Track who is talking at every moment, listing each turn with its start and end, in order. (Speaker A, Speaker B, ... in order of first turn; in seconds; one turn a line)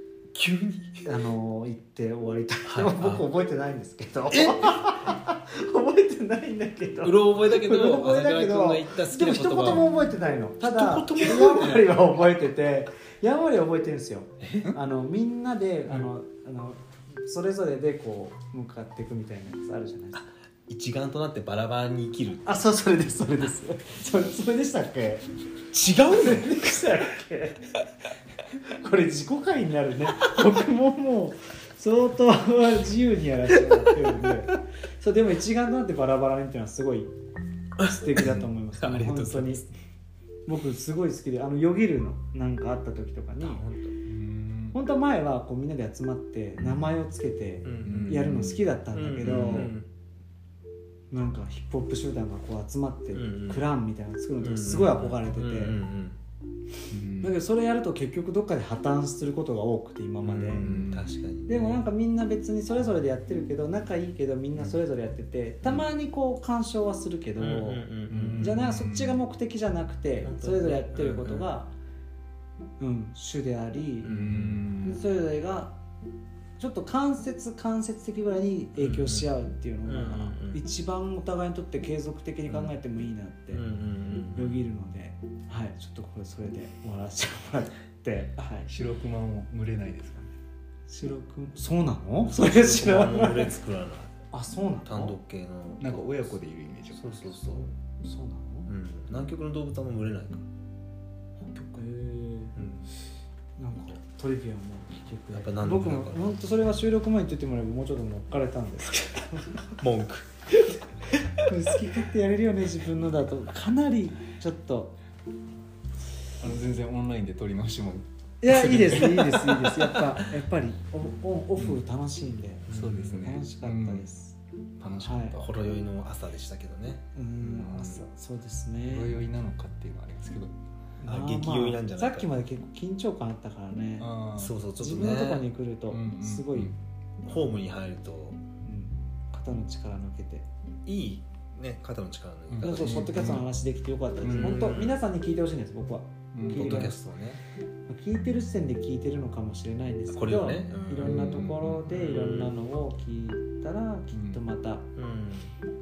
Speaker A: 0.3-1.1
Speaker B: 1.0-20.2
Speaker A: 2.7-3.2
Speaker A: 4.3-5.1
Speaker A: 7.0-9.9
Speaker A: 10.6-12.1
Speaker A: 14.4-14.8
Speaker A: 20.2-22.7
Speaker B: 22.5-25.2
Speaker A: 25.7-26.9
Speaker B: 26.0-27.7
Speaker B: 28.6-37.1
Speaker A: 33.6-34.0
Speaker B: 37.8-39.7
Speaker A: 37.8-39.7
Speaker B: 40.5-43.6
Speaker A: 43.4-44.0
Speaker C: 44.1-44.8
Speaker B: 44.7-49.7
Speaker A: 47.6-48.4
Speaker C: 47.8-48.7
Speaker A: 48.9-49.9
Speaker C: 49.3-49.7
Speaker B: 51.1-55.8
Speaker A: 53.1-53.7
Speaker A: 54.4-56.2
Speaker C: 56.9-57.4
Speaker B: 57.2-60.7
Speaker A: 60.2-61.8
Speaker C: 60.5-61.1
Speaker B: 61.5-67.9
Speaker A: 67.4-68.6
Speaker C: 68.1-69.2
Speaker B: 68.4-71.7
Speaker A: 70.2-71.5
Speaker B: 72.8-74.1
Speaker A: 74.0-74.6
Speaker C: 74.1-75.0
Speaker B: 74.8-75.8
Speaker B: 76.6-83.6
Speaker A: 78.8-79.3
Speaker A: 79.8-80.6
Speaker A: 82.5-82.7
Speaker A: 83.5-84.6
Speaker B: 84.3-88.7
Speaker C: 88.6-90.4
Speaker B: 90.9-93.5
Speaker A: 92.3-94.1
Speaker B: 94.3-95.2
Speaker A: 94.9-96.3
Speaker C: 95.8-97.3
Speaker A: 96.9-97.7
Speaker B: 97.4-98.7
Speaker A: 98.7-100.5
Speaker A: 101.4-101.9
Speaker B: 101.8-102.6
Speaker A: 102.6-102.8
Speaker B: 103.6-109.8
Speaker A: 105.3-106.3
Speaker A: 109.8-110.3
Speaker B: 111.4-115.0
Speaker C: 116.4-120.1
Speaker B: 118.4-124.4
Speaker A: 122.7-123.3
Speaker C: 122.7-124.1
Speaker C: 124.8-125.5
Speaker B: 125.0-125.4
Speaker A: 125.4-128.0
Speaker B: 127.2-129.1
Speaker C: 128.9-130.6
Speaker B: 131.0-134.1
Speaker A: 131.1-132.3
Speaker C: 134.0-134.5
Speaker A: 134.4-135.5
Speaker B: 134.8-136.7
Speaker C: 135.9-136.8
Speaker A: 137.2-138.4
Speaker B: 138.6-140.5
Speaker A: 140.9-143.4
Speaker C: 142.5-143.5
Speaker B: 142.6-146.9
Speaker C: 144.2-144.7
Speaker A: 144.2-145.0
Speaker C: 146.3-146.9
Speaker A: 146.5-147.4
Speaker B: 147.9-154.8
Speaker A: 150.1-152.6
Speaker C: 151.0-151.9
Speaker C: 154.1-154.4
Speaker A: 155.0-155.5